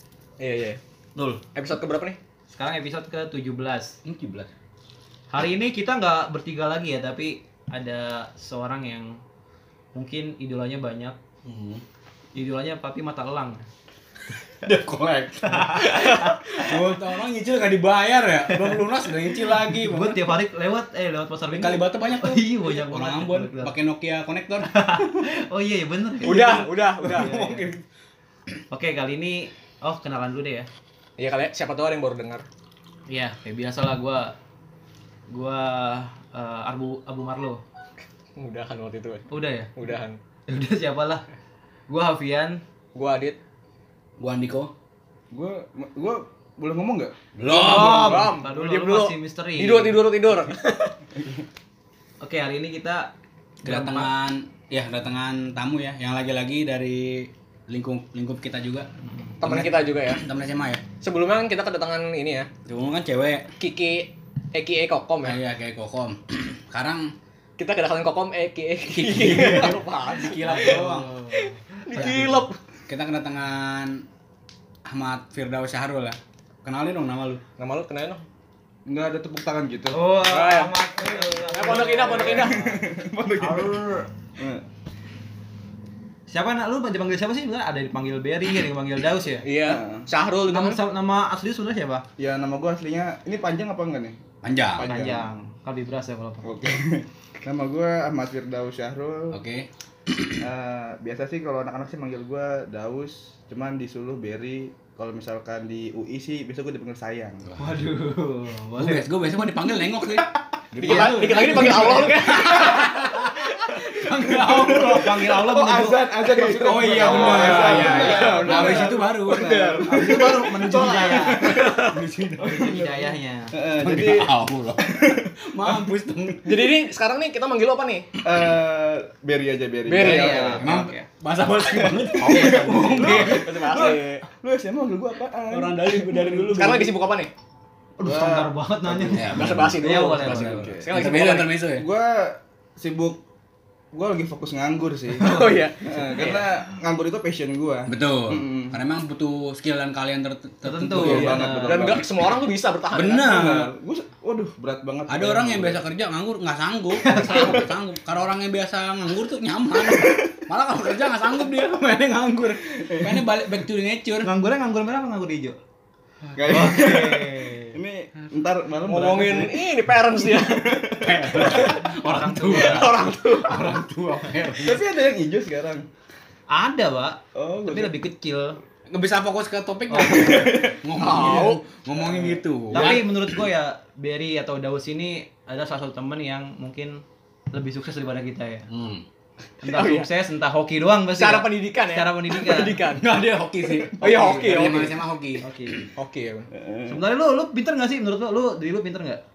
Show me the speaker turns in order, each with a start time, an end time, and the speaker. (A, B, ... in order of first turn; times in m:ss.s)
0:00.4-0:00.8 A
0:01.1-0:01.4 B
0:01.5-0:02.2 A
0:02.5-0:04.0 B
0:04.0-0:04.5 C
0:05.3-0:09.2 B
0:09.9-0:11.2 B
0:11.4-0:11.8 C
0:12.3-0:13.6 B
0:14.6-0:20.2 C
0:15.4-0:16.8 B
0:18.5-0:18.8 B
0:19.4-0:23.7 B
0:21.5-0:25.1 C
0:24.6-0:27.7 B
0:26.2-0:27.3 A
0:26.2-0:27.8 C
0:28.7-0:30.7 B
0:31.2-0:32.5 A
0:33.1-0:34.3 B
0:35.3-0:37.6 B
0:38.4-0:40.2 A
0:39.3-0:39.7 B
0:40.5-0:41.2 B
0:41.9-0:42.6 B
0:42.9-0:43.4 A
0:44.2-0:44.7 C
0:45.3-0:47.1 D
0:47.4-0:48.3 C
0:47.5-0:50.0 B
0:47.5-0:50.9 A
0:52.2-0:53.1 B
0:53.6-0:54.1 B
0:53.6-0:58.9 C
0:59.4-1:00.2 A
0:59.4-1:00.8 C
1:01.0-1:02.5 A
1:02.6-1:03.5 C
1:03.6-1:05.4 A
1:05.2-1:07.1 C
1:07.6-1:12.6 A
1:08.9-1:11.1 C
1:10.4-1:12.2 B
1:11.9-1:14.0 C
1:14.8-1:17.4 C
1:17.6-1:18.2 A
1:18.8-1:20.1 D
1:19.9-1:22.5 B
1:20.2-1:20.7 A
1:21.0-1:23.8 D
1:21.5-1:22.8 A
1:23.4-1:24.1 B
1:24.4-1:24.6 D
1:26.3-1:29.4 B
1:29.4-1:30.8 A
1:29.6-1:30.1 D
1:30.4-1:32.0 B
1:32.2-1:34.2 D
1:34.4-1:34.9 C
1:34.7-1:35.3 D
1:34.8-1:36.4 B
1:36.4-1:39.4 D
1:39.3-1:39.7 C
1:40.4-1:47.4 D
1:47.6-1:49.1 B
1:48.8-1:55.0 C
1:50.7-1:52.1 D
1:50.8-1:53.9 A
1:54.1-1:58.4 B
1:54.2-2:01.7 D
1:56.5-1:59.8 C
1:57.0-2:02.0 A
1:59.8-2:01.7 B
2:00.7-2:02.7 C
2:02.4-2:06.0 D
2:02.4-2:03.5 B
2:03.8-2:04.9 C
2:05.5-2:06.6 C
2:06.4-2:08.1 A
2:08.2-2:10.8 D
2:09.9-2:10.6 A
2:10.0-2:11.0 B
2:10.6-2:13.8 C
2:12.2-2:14.2 A
2:12.2-2:16.4 D
2:15.5-2:17.0 C
2:16.4-2:17.3 A
2:18.0-2:20.7 B
2:18.0-2:21.0 D
2:19.1-2:20.1 C
2:19.3-2:21.5 A
2:20.9-2:21.8 C
2:21.8-2:23.2 D
2:23.9-2:28.8 D
2:25.2-2:26.2 A
2:27.9-2:31.4 C
2:30.6-2:31.9 B
2:30.9-2:32.0 D
2:31.6-2:33.4 A
2:32.9-2:33.7 C
2:33.3-2:35.8 D
2:35.1-2:44.3 C
2:37.0-2:37.6 B
2:39.8-2:40.2 D
2:42.8-2:43.2 D
2:44.2-2:45.6 B
2:46.2-2:46.9 C
2:46.3-2:51.7 D
2:46.5-2:47.8 B
2:48.8-2:51.8 A
2:51.0-2:54.8 C
2:52.0-2:52.9 B
2:52.5-2:53.8 A
2:54.6-2:55.8 D
2:56.5-2:58.6 B
2:57.3-2:57.9 D
2:58.9-3:03.0 C
3:00.0-3:01.3 D
3:00.9-3:01.6 A
3:02.0-3:02.4 D
3:02.7-3:08.6 B
3:08.7-3:09.0 C
3:09.6-3:12.8 B
3:09.7-3:10.1 A
3:11.1-3:13.0 A
3:12.9-3:15.4 C
3:13.9-3:15.0 A
3:14.0-3:15.9 B
3:15.9-3:16.5 A
3:16.6-3:17.0 D
3:16.9-3:19.2 B